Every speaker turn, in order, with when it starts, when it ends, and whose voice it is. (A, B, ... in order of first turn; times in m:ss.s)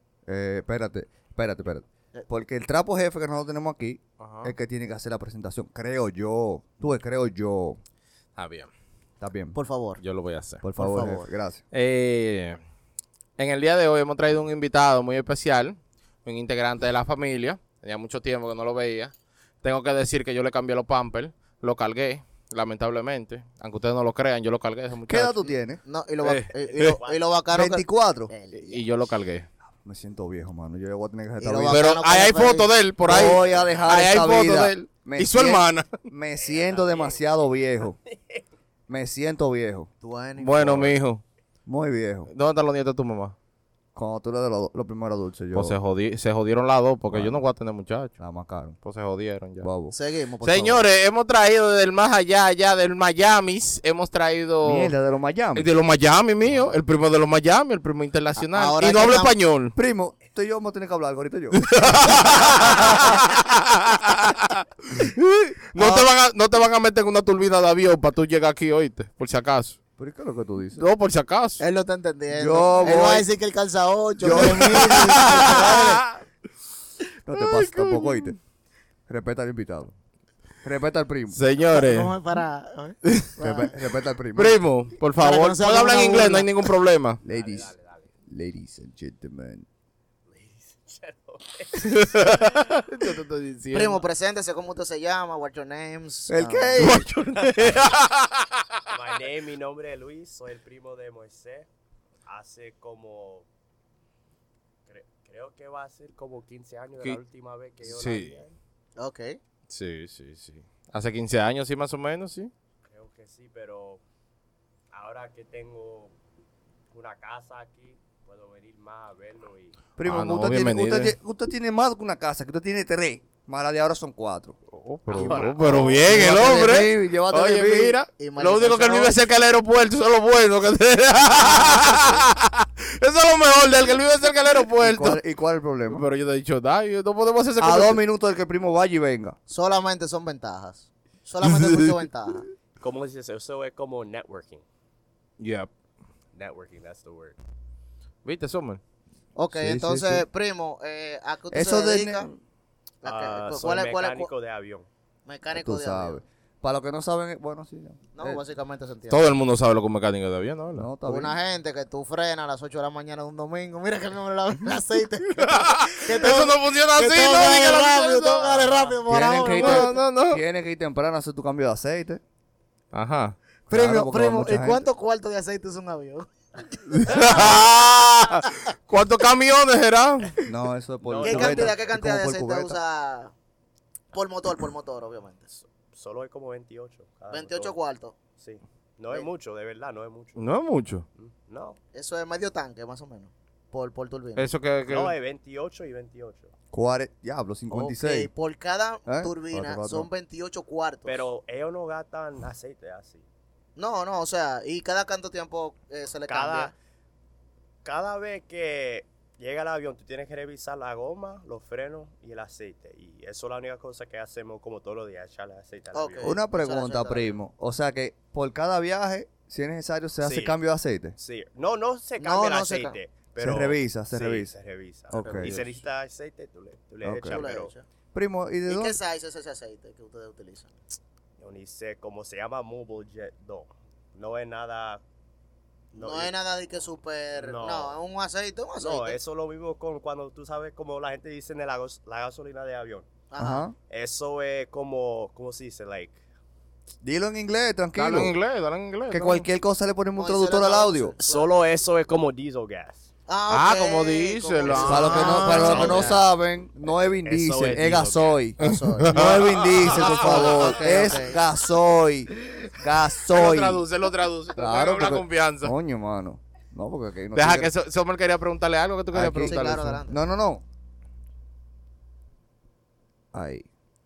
0:00.3-0:07.8 A
0:04.2-0:04.5 B
0:08.4-0:08.7 B
0:09.2-0:09.6 A
0:09.5-0:10.0 C
0:10.0-0:10.6 B
0:10.6-0:11.6 A
0:10.8-0:11.2 C
0:11.7-0:12.6 B
0:13.4-0:25.5 B
0:25.1-0:25.8 A
0:25.8-0:28.8 C
0:26.2-0:27.0 B
0:26.7-0:27.2 D
0:27.5-0:28.3 A
0:28.5-0:29.5 B
0:29.8-0:31.9 A
0:31.4-0:32.7 C
0:31.7-0:36.0 B
0:33.0-0:38.0 A
0:33.4-0:33.9 D
0:36.4-0:37.2 D
0:38.1-0:38.4 D
0:38.9-0:39.9 A
0:40.0-0:41.0 C
0:40.4-0:41.2 B
0:41.7-0:42.3 A
0:42.3-0:43.4 B
0:44.0-0:45.8 A
0:45.5-0:48.2 B
0:47.1-0:47.4 A
0:48.2-0:48.8 A
0:48.8-0:49.7 B
0:49.6-0:50.0 A
0:49.9-0:50.9 C
0:50.4-0:54.9 B
0:54.6-0:55.7 A
0:55.6-0:59.8 B
0:56.4-0:56.8 A
0:58.4-0:59.3 C
0:59.8-1:03.2 A
1:01.6-1:09.8 B
1:05.8-1:06.1 A
1:10.0-1:10.8 A
1:10.8-1:11.6 B
1:11.6-1:16.0 C
1:12.3-1:13.3 A
1:14.2-1:16.0 A
1:14.3-1:16.1 B
1:17.3-1:18.4 A
1:17.3-1:18.4 B
1:19.1-1:19.9 A
1:20.6-1:21.4 A
1:21.3-1:22.1 B
1:21.7-1:23.8 C
1:23.0-1:23.3 B
1:23.4-1:24.6 A
1:24.4-1:27.2 B
1:25.2-1:26.5 C
1:27.2-1:27.7 A
1:27.3-1:28.1 D
1:28.3-1:29.7 A
1:30.3-1:32.6 D
1:31.8-1:34.0 B
1:33.7-1:36.9 C
1:36.3-1:37.1 A
1:36.8-1:38.8 B
1:37.1-1:38.0 D
1:38.9-1:41.7 D
1:42.3-1:43.5 D
1:44.9-1:48.6 D
1:47.8-1:48.4 B
1:49.0-1:49.4 C
1:49.7-1:52.5 B
1:52.9-1:54.0 D
1:54.9-1:56.1 D
1:56.9-1:59.8 D
2:00.0-2:04.6 A
2:00.0-2:01.2 B
2:04.7-2:15.2 B
2:05.1-2:06.1 D
2:05.1-2:08.0 A
2:08.2-2:09.2 C
2:11.5-2:12.2 C
2:14.8-2:16.0 A
2:15.9-2:18.0 B
2:17.6-2:19.4 A
2:19.5-2:22.5 C
2:22.8-2:24.6 D
2:25.4-2:25.7 B
2:26.4-2:27.4 D
2:28.2-2:28.8 B
2:29.4-2:32.3 C
2:29.5-2:30.2 A
2:31.5-2:32.4 A
2:33.0-2:34.3 C
2:33.0-2:34.9 D
2:35.3-2:36.2 C
2:35.5-2:38.4 A
2:38.2-2:39.3 C
2:39.1-2:40.9 B
2:40.8-2:41.4 A
2:41.1-2:50.0 C
2:45.4-2:50.4 B
2:49.1-2:52.2 A
2:52.9-2:53.4 B
2:53.7-2:54.8 A
2:53.7-2:56.3 C
2:56.9-3:00.4 B
2:57.0-2:57.6 C
3:00.4-3:02.8 A
3:01.0-3:01.8 D
3:01.2-3:03.3 C
3:04.1-3:05.6 C
3:05.9-3:07.7 D
3:07.3-3:08.2 C
3:08.4-3:10.5 D
3:10.4-3:11.1 B
3:11.2-3:11.8 D
3:11.9-3:14.5 C
3:14.4-3:15.2 B
3:14.8-3:16.5 D
3:16.7-3:18.3 A
3:17.7-3:21.3 C
3:19.1-3:20.1 A
3:21.0-3:23.3 D
3:23.8-3:26.7 C
3:26.3-3:26.8 D
3:27.8-3:36.4 D
3:35.9-3:37.4 C
3:36.2-3:41.2 A
3:40.2-3:40.6 D
3:41.2-3:47.7 D
3:42.2-3:43.0 C
3:43.4-3:44.5 A
3:45.1-3:45.6 A
3:45.1-3:45.7 C
3:47.0-3:47.4 A
3:47.3-3:47.9 C
3:48.1-3:49.0 A
3:48.7-3:50.8 C
3:51.4-3:55.0 D
3:55.9-3:56.3 D
3:55.9-3:59.2 C
3:57.4-3:58.0 D
3:58.8-4:03.1 D
4:03.3-4:03.7 C
4:03.4-4:03.8 A
4:03.9-4:06.2 D
4:07.0-4:08.4 A
4:08.0-4:09.5 B
4:09.1-4:11.1 A
4:10.2-4:11.5 C
4:11.2-4:13.1 D
4:13.3-4:16.2 C
4:13.5-4:16.0 B
4:14.7-4:23.8 A
4:15.4-4:16.2 D
4:17.2-4:18.4 D
4:18.6-4:19.4 C
4:18.6-4:21.1 B
4:20.0-4:21.4 C
4:23.3-4:25.7 B
4:24.6-4:27.7 A
4:27.3-4:30.0 B
4:29.1-4:30.6 A
4:29.2-4:30.2 C
4:33.3-4:33.7 A